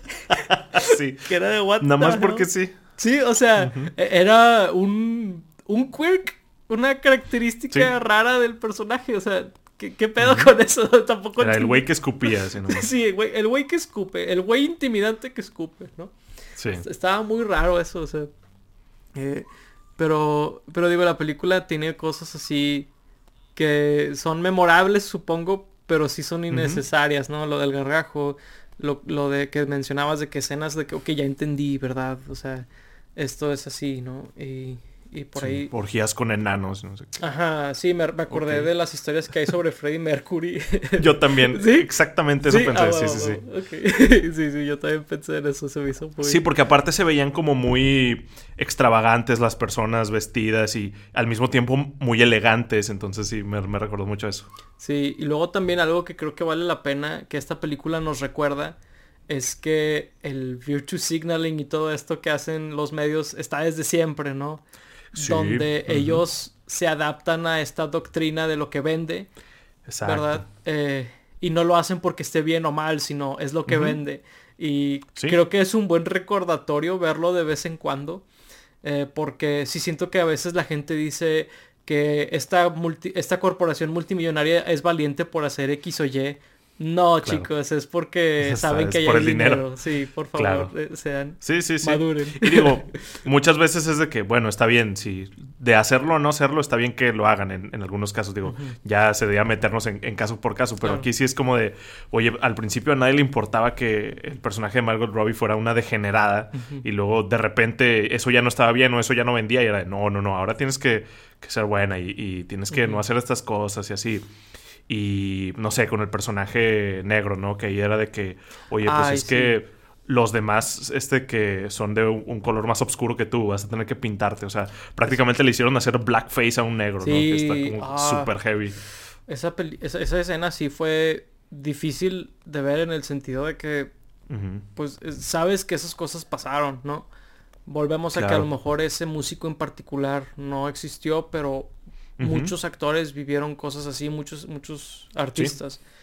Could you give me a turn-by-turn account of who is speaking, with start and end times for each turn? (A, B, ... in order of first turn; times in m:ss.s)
0:00.1-0:16.1 A
0:00.3-0:01.3 B
0:01.8-0:02.7 B
0:03.6-0:03.9 B
0:10.2-0:10.5 B
0:11.4-0:12.9 B
0:16.6-0:16.8 B
0:16.7-0:18.3 A
0:19.2-0:22.9 A
0:23.6-0:35.7 A
0:26.5-0:26.8 B
0:35.4-0:37.2 B
0:37.2-0:41.9 A
0:38.3-0:38.7 B
0:41.0-0:43.4 B
0:42.4-0:46.4 A
0:46.2-0:54.5 B
0:54.8-0:58.8 A
0:59.3-1:04.6 A
1:05.1-1:06.2 B
1:05.2-1:09.3 A
1:09.9-1:10.4 B
1:10.0-1:18.2 A
1:13.7-1:14.0 B
1:18.8-1:33.2 A
1:27.2-1:27.5 B
1:28.4-1:29.6 B
1:30.4-1:30.7 B
1:31.4-1:54.2 B
1:38.4-1:38.8 A
1:40.8-1:41.1 A
1:46.5-1:46.8 A
1:52.7-1:53.0 A
1:54.9-2:08.8 B
1:58.8-1:59.6 A
2:07.0-2:08.4 A
2:09.3-2:13.9 A
2:14.3-2:14.7 B
2:14.8-2:17.1 A
2:17.7-2:25.8 A
2:18.1-2:18.5 B
2:22.2-2:22.5 B